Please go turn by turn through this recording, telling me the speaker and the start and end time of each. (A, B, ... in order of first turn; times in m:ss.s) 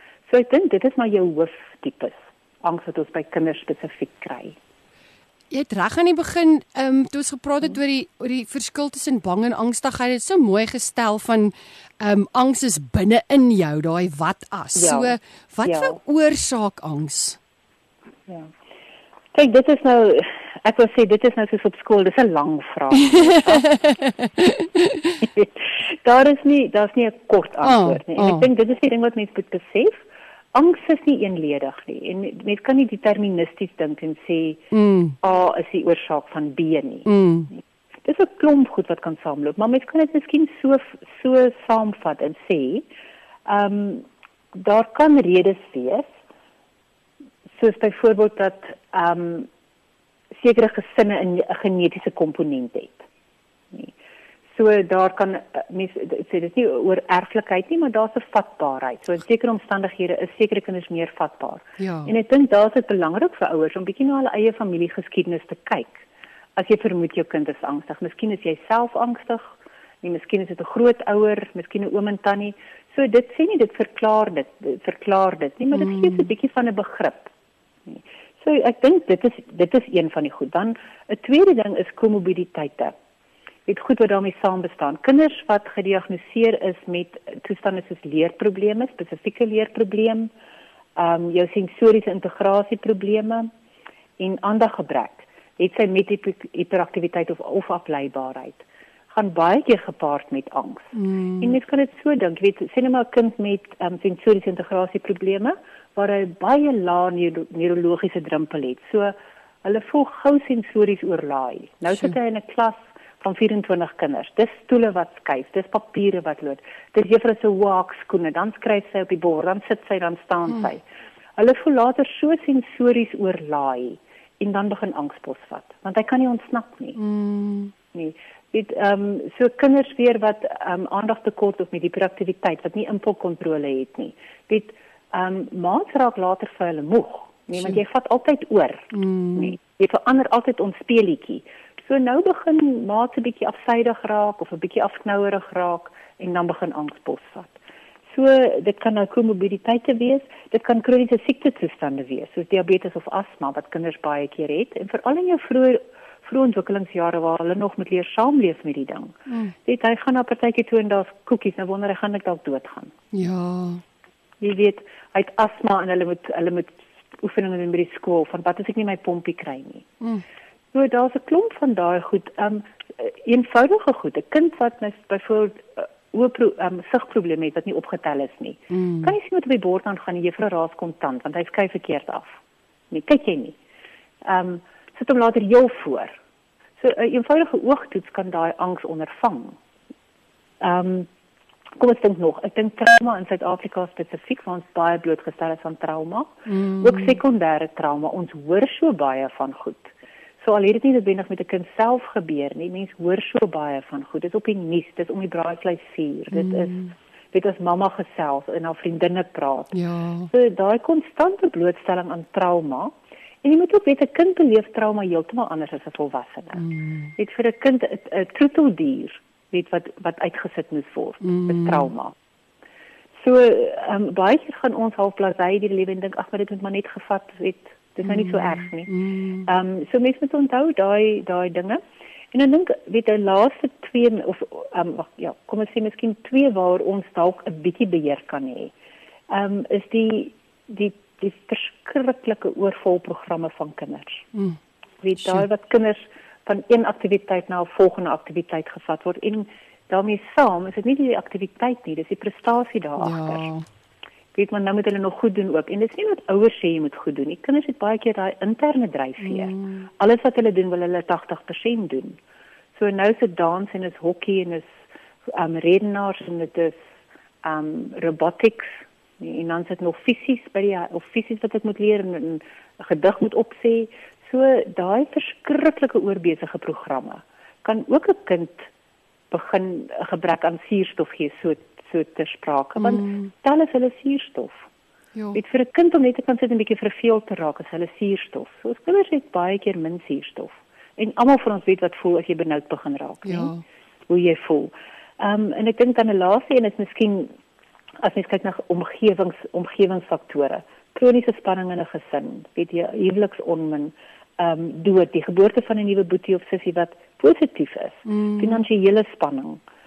0:00.3-0:04.6 A
0:05.5-0:17.4 B
0:14.8-0:16.0 A
0:19.3-0:23.7 A
0:23.1-0:25.2 B
0:25.2-0:30.0 A
0:27.6-0:28.5 B
0:30.5-0:34.6 A
0:34.7-0:35.2 B
0:35.2-0:42.9 A
0:37.1-0:37.5 B
0:43.5-0:46.1 A
0:47.6-0:49.5 A
0:50.4-0:53.1 A
0:54.6-1:06.0 A
1:01.8-1:02.1 B
1:06.6-1:17.3 A
1:15.7-1:16.3 B
1:17.9-1:22.9 A
1:23.7-1:30.3 A
1:31.0-1:33.5 A
1:34.2-2:00.8 A
1:40.9-1:41.6 B
2:01.4-2:07.0 A
2:07.0-2:07.7 B
2:07.9-2:27.6 A
2:18.9-2:19.6 B
2:28.1-2:42.9 A
2:39.3-2:39.5 B
2:43.1-2:43.8 B
2:44.4-2:49.9 A
2:50.7-3:02.4 A
2:58.7-2:59.1 B
3:02.9-3:03.6 A
3:04.2-3:06.2 A
3:06.8-3:09.6 A
3:10.6-3:11.1 A
3:11.8-3:19.9 A
3:16.5-3:17.2 B
3:20.4-3:26.8 A
3:26.3-3:26.9 B
3:27.3-3:29.8 A
3:29.7-3:30.3 B
3:30.3-3:36.6 A
3:36.6-3:37.1 B
3:37.2-3:42.1 A
3:41.2-3:41.9 B
3:43.2-3:48.9 A
3:48.1-3:49.5 B
3:49.4-3:51.8 A
3:52.3-3:58.7 A
3:59.3-4:04.3 A
4:04.3-4:04.6 B
4:05.0-4:13.5 A
4:05.2-4:05.5 B
4:13.0-4:13.6 B
4:14.4-4:22.2 A
4:19.2-4:19.9 B
4:22.8-4:26.8 A
4:27.4-4:38.7 A
4:39.3-4:44.7 A
4:42.8-4:43.3 B
4:45.1-4:45.4 B
4:45.3-4:53.5 A
4:53.3-4:53.6 B
4:54.1-4:57.3 A
4:58.0-5:09.6 A
5:08.1-5:08.6 B